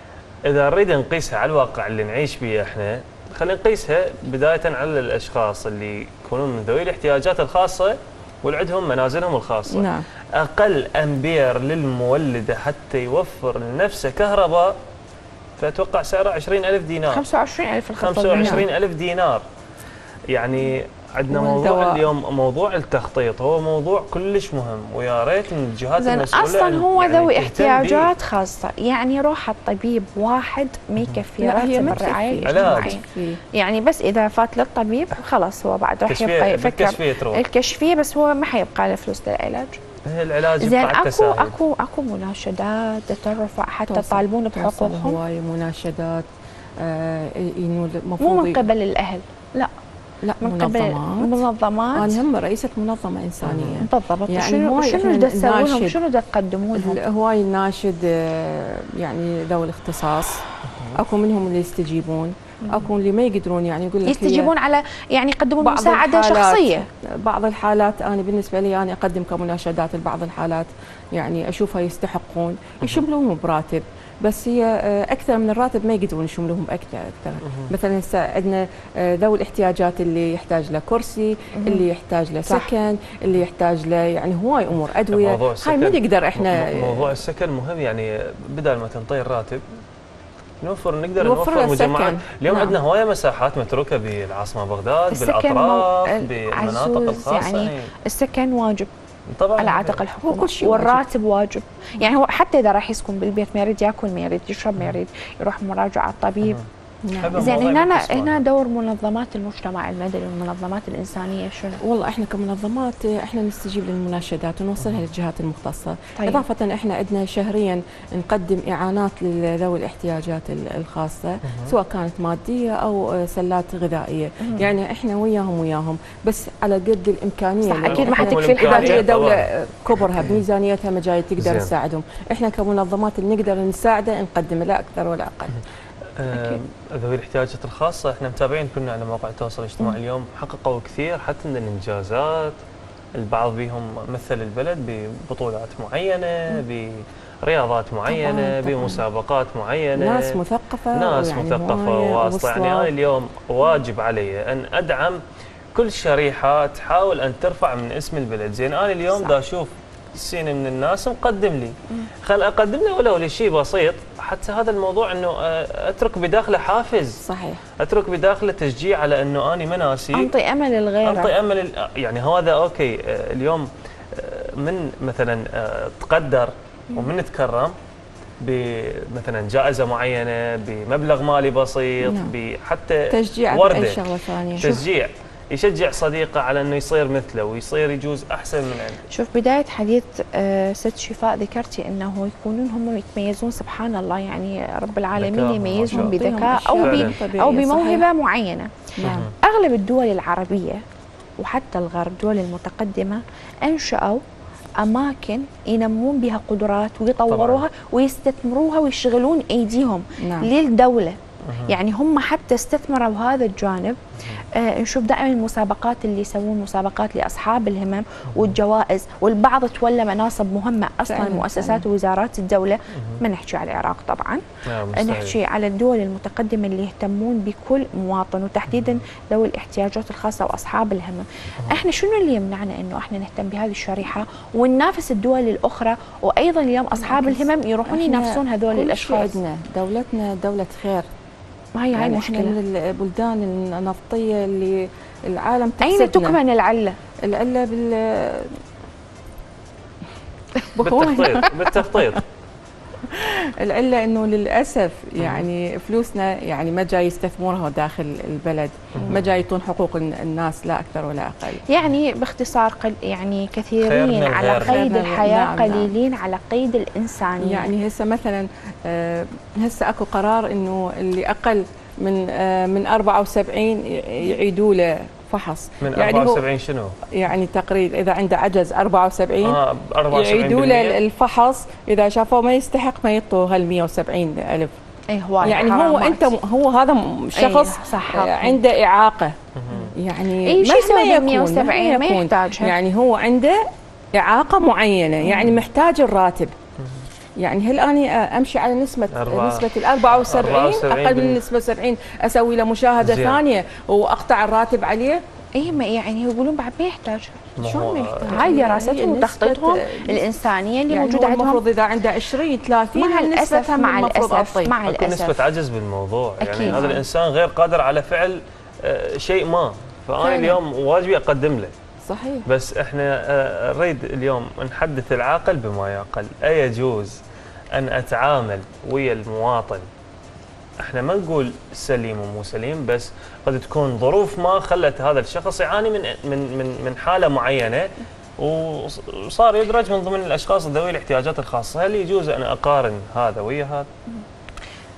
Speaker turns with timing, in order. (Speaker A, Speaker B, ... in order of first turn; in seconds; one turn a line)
Speaker A: 0.5-14.8
Speaker B: 9.7-10.1
Speaker A: 15.6-17.2
Speaker C: 17.1-18.7
Speaker A: 18.0-19.4
Speaker B: 18.3-18.6
Speaker A: 20.3-28.1
Speaker B: 21.3-22.1
Speaker C: 26.0-33.0
Speaker B: 31.4-33.4
Speaker A: 32.5-33.0
Speaker C: 33.5-39.8
Speaker A: 36.1-37.4
Speaker A: 40.0-41.5
Speaker C: 40.6-45.2
Speaker B: 43.9-48.6
Speaker C: 48.2-49.7
Speaker B: 50.2-51.4
Speaker C: 50.4-52.1
Speaker B: 52.0-56.0
Speaker A: 53.4-53.9
Speaker C: 53.8-57.0
Speaker B: 56.8-64.5
Speaker A: 60.7-61.0
Speaker C: 62.6-62.9
Speaker C: 64.0-66.9
Speaker B: 65.6-87.2
Speaker A: 77.5-77.7
Speaker C: 81.6-81.9
Speaker C: 82.5-82.7
Speaker A: 85.1-89.7
Speaker A: 90.6-97.9
Speaker B: 91.2-92.2
Speaker C: 92.5-92.8
Speaker C: 95.1-98.9
Speaker A: 99.3-100.0
Speaker C: 99.6-106.6
Speaker B: 100.2-101.0
Speaker B: 107.0-107.6
Speaker A: 107.2-108.4
Speaker C: 107.3-111.8
Speaker B: 111.8-135.6
Speaker C: 116.2-116.4
Speaker A: 121.5-121.8
Speaker C: 127.6-129.1
Speaker A: 127.9-130.4
Speaker A: 131.4-131.7
Speaker A: 136.2-142.6
Speaker C: 136.3-136.6
Speaker A: 143.2-150.4
Speaker B: 148.1-149.0
Speaker B: 149.9-152.9
Speaker A: 150.9-155.2
Speaker A: 155.7-167.2
Speaker B: 167.2-167.6
Speaker A: 167.8-170.3
Speaker C: 170.1-171.3
Speaker A: 171.0-177.8
Speaker A: 178.4-184.0
Speaker B: 182.0-182.3
Speaker B: 183.1-184.8
Speaker A: 184.6-189.0
Speaker C: 189.1-200.8
Speaker A: 195.2-196.2
Speaker B: 195.9-198.1
Speaker A: 196.8-197.1
Speaker B: 199.0-199.3
Speaker A: 199.0-199.3
Speaker C: 201.4-204.2
Speaker C: 204.8-214.0
Speaker A: 207.3-207.7
Speaker B: 210.2-210.5
Speaker A: 211.4-211.7
Speaker C: 214.5-239.4
Speaker B: 221.1-221.8
Speaker A: 223.0-223.2
Speaker A: 224.7-225.4
Speaker A: 228.7-229.0
Speaker B: 237.0-241.1
Speaker C: 241.8-242.6
Speaker B: 241.9-246.4
Speaker C: 245.8-247.0
Speaker B: 247.2-248.6
Speaker C: 250.8-251.5
Speaker A: 250.8-252.2
Speaker B: 250.8-251.5
Speaker B: 253.0-261.6
Speaker A: 255.2-255.5
Speaker A: 258.9-259.3
Speaker C: 261.7-267.7
Speaker A: 263.8-264.8
Speaker B: 264.6-265.9
Speaker B: 267.4-276.4
Speaker A: 275.8-277.0
Speaker B: 277.1-284.7
Speaker A: 279.4-281.0
Speaker C: 285.1-286.3
Speaker B: 285.4-289.4
Speaker C: 287.3-288.6
Speaker A: 289.6-289.9
Speaker B: 289.9-296.6
Speaker C: 290.4-292.8
Speaker C: 295.3-295.5
Speaker A: 296.8-297.1
Speaker B: 297.4-305.2
Speaker A: 299.1-301.4
Speaker A: 303.0-303.4
Speaker C: 305.6-307.4
Speaker A: 307.6-308.6
Speaker B: 307.6-310.3
Speaker C: 308.3-311.6
Speaker B: 310.9-314.8
Speaker C: 312.9-315.4
Speaker A: 314.9-321.8
Speaker C: 316.4-317.0
Speaker B: 316.6-317.0
Speaker C: 320.2-320.6
Speaker B: 322.1-322.5
Speaker A: 322.5-327.2
Speaker A: 327.7-329.9
Speaker A: 330.8-343.9